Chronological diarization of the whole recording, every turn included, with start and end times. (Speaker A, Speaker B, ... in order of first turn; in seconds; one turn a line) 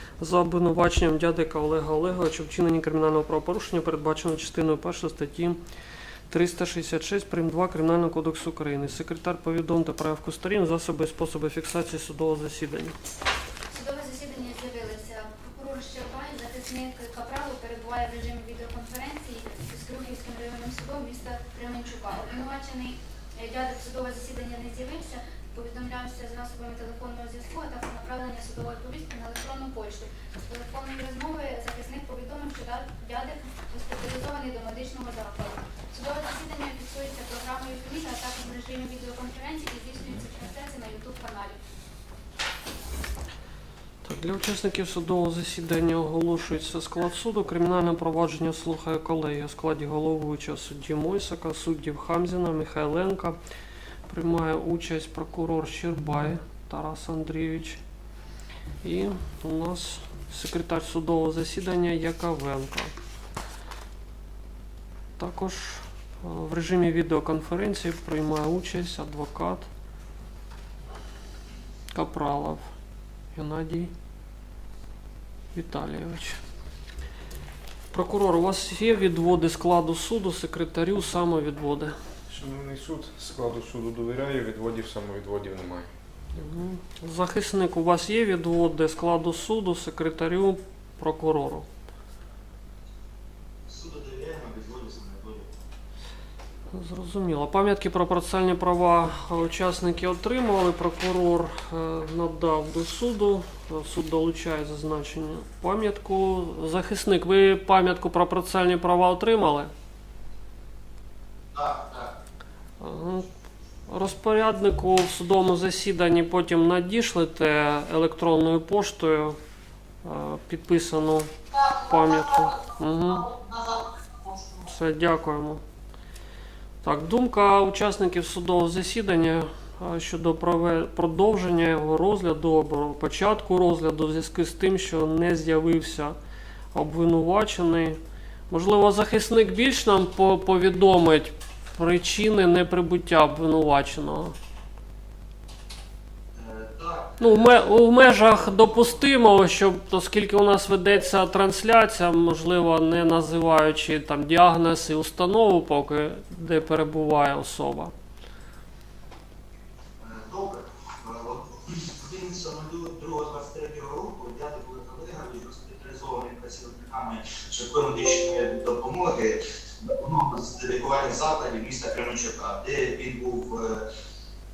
Speaker A: 0.2-5.6
Speaker A: 6.3-13.0
Speaker B: 13.7-41.6
Speaker A: 44.0-53.4
Speaker A: 54.1-57.8
Speaker A: 58.8-62.9
Speaker A: 65.2-69.7
Speaker A: 71.9-72.7
Speaker A: 73.3-73.9
Speaker A: 75.5-76.4
Speaker A: 77.9-81.9
Speaker C: 82.3-85.9
Speaker A: 86.4-91.7
Speaker D: 93.7-95.5
Speaker A: 96.7-109.7
Speaker D: 111.5-112.1
Speaker A: 112.8-113.3
Speaker A: 113.9-119.4
Speaker A: 120.0-123.3
Speaker D: 123.4-123.8
Speaker A: 124.6-125.6
Speaker A: 126.8-136.2
Speaker A: 136.7-138.0
Speaker A: 138.5-144.3
Speaker D: 146.4-147.6
Speaker A: 147.2-157.9
Speaker D: 148.2-149.0
Speaker D: 160.0-173.8